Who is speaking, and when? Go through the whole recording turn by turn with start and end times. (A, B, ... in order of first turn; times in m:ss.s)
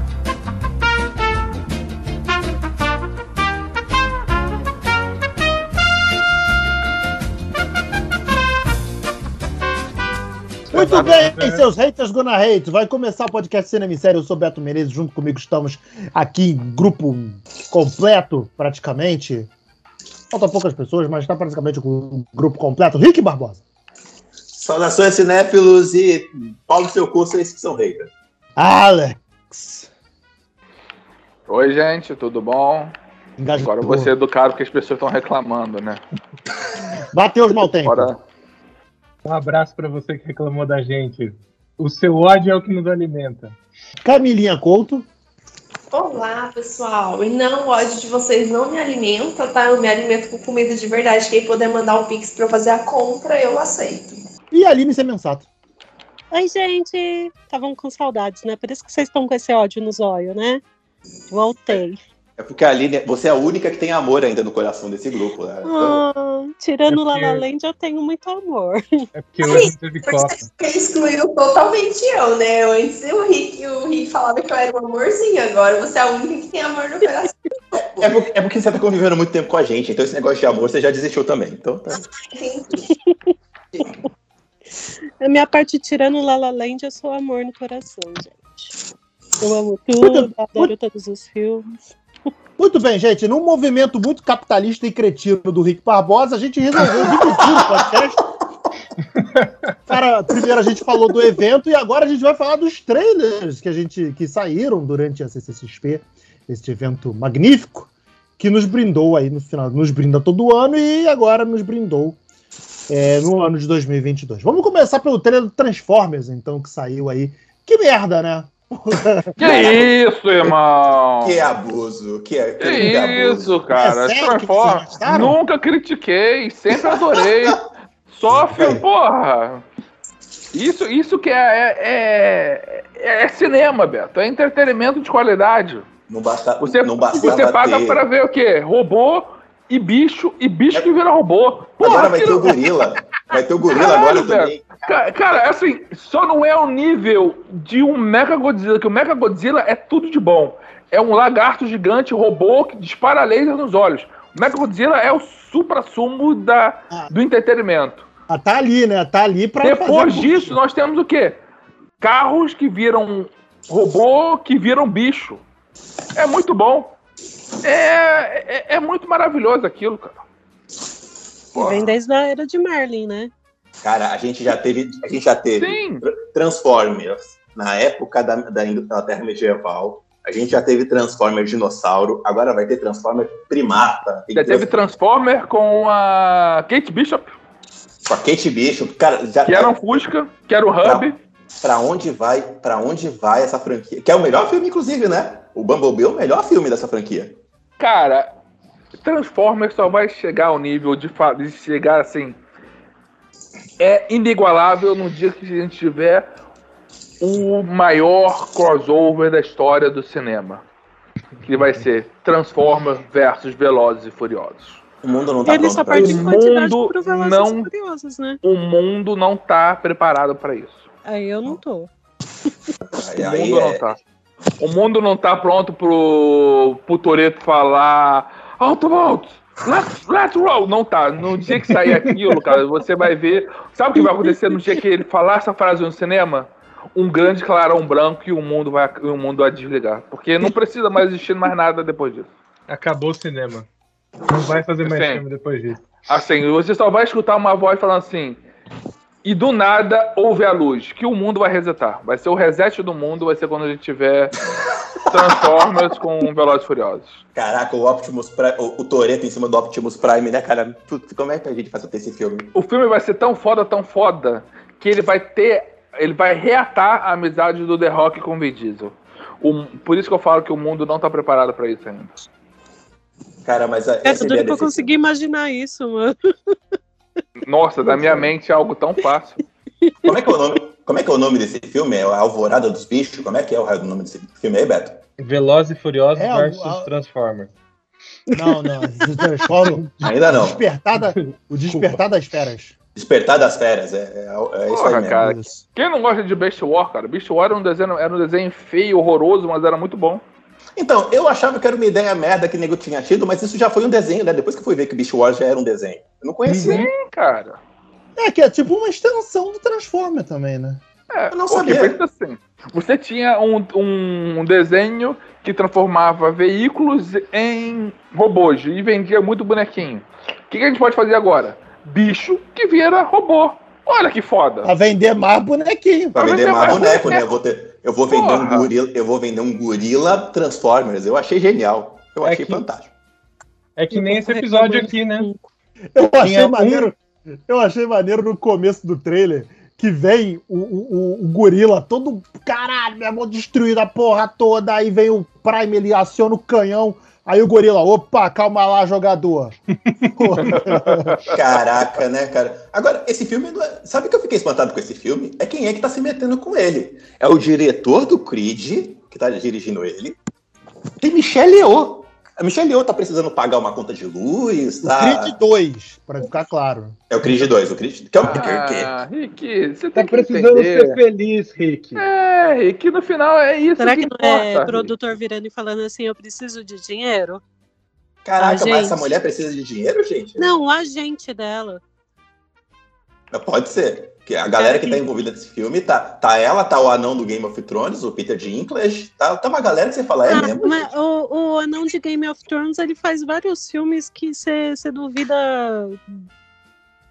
0:10.7-0:11.6 A
0:10.7-0:19.5 B
0:20.3-0:23.6 B
0:24.5-0:28.1 C
0:28.6-0:29.9 B
0:31.5-0:32.9 D
0:33.4-0:34.1 B
0:33.6-0:36.0 D
0:37.1-0:38.1 B
0:37.8-0:38.2 D
0:39.2-0:43.6 A
0:44.0-0:45.1 B
0:45.9-0:54.2 E
0:54.5-0:55.5 B
0:56.3-1:00.6 F
1:01.3-1:02.0 F
1:02.4-1:06.0 C
1:05.6-1:09.0 F
1:06.9-1:07.4 A
1:09.1-1:10.5 A
1:09.4-1:18.0 E
1:18.0-1:22.0 C
1:22.3-1:22.9 E
1:22.9-1:23.2 F
1:25.2-1:28.7 F
1:29.4-1:31.8 F
1:30.0-1:30.7 B
1:32.6-1:38.2 B
1:36.8-1:37.9 C
1:39.2-1:39.5 A
1:39.9-1:52.2 B
1:52.9-1:59.7 B
1:59.4-2:00.5 C
1:59.4-2:01.4 D
2:01.2-2:03.6 C
2:02.6-2:09.6 D
2:03.7-2:05.4 B
2:06.8-2:07.5 C
2:08.3-2:08.8 B
2:10.5-2:15.9 D
2:16.1-2:18.0 C
2:16.6-2:22.9 D
2:21.8-2:25.0 C
2:23.7-2:38.1 D
2:38.3-2:40.6 B
2:39.6-2:41.4 D
2:42.0-2:45.4 D
2:46.2-2:47.0 D
2:47.6-2:50.2 D
2:51.6-2:53.3 F
2:51.6-2:51.8 D
2:53.8-3:04.7 C
2:55.6-2:56.0 D
3:04.3-3:07.4 D
3:08.1-3:10.1 C
3:09.5-3:11.2 D
3:10.8-3:11.1 C
3:11.6-3:17.4 C
3:17.8-3:18.3 D
3:19.0-3:22.4 D
3:23.8-3:26.3 D
3:27.2-3:30.6 D
3:31.4-3:34.8 D
3:35.0-3:36.4 C
3:35.4-3:38.4 F
3:35.9-3:37.7 D
3:38.4-3:40.8 D
3:41.1-3:41.9 F
3:42.8-3:43.8 C
3:43.2-3:44.0 D
3:44.6-4:02.3 D
4:02.7-4:03.7 A
4:04.3-4:05.9 A
4:04.8-4:05.2 D
4:06.1-4:08.4 D
4:09.2-4:14.4 D
4:15.1-4:17.2 D
4:15.1-4:15.7 C
4:17.4-4:22.5 C
4:22.5-4:32.1 D
4:33.4-4:35.0 C
4:34.0-4:36.6 F
4:37.4-4:39.4 D
4:38.0-4:38.2 F
4:39.8-4:40.3 F
4:40.0-4:45.0 C
4:45.2-4:47.5 A
4:46.1-4:46.9 B
4:48.4-4:52.8 B
4:50.0-4:50.6 C
4:51.7-4:52.0 A
4:53.0-4:55.4 C
4:54.7-5:00.2 D
4:55.2-4:55.6 B
5:00.8-5:06.9 C
5:06.5-5:06.8 A
5:06.6-5:07.6 D
5:08.2-5:10.8 B
5:11.1-5:24.7 D
5:11.3-5:12.0 C
5:24.6-5:26.2 B
5:26.2-5:32.9 C
5:26.2-5:27.3 D
5:28.1-5:28.7 D
5:32.2-5:32.6 A
5:33.8-5:35.3 A
5:33.9-5:35.4 F
5:36.0-5:51.2 B
5:36.2-5:36.9 A
5:49.9-5:50.6 A
5:50.6-5:51.4 D
5:51.3-6:00.2 C
6:01.0-6:05.4 C
6:04.8-6:07.0 B
6:07.1-6:08.9 C
6:08.2-6:11.0 D
6:10.0-6:12.0 A
6:12.0-6:15.0 D
6:13.8-6:17.4 F
6:18.2-6:20.6 C
6:18.4-6:19.1 F
6:20.4-6:21.8 F
6:23.3-6:30.9 C
6:24.6-6:25.0 F
6:30.3-6:36.0 F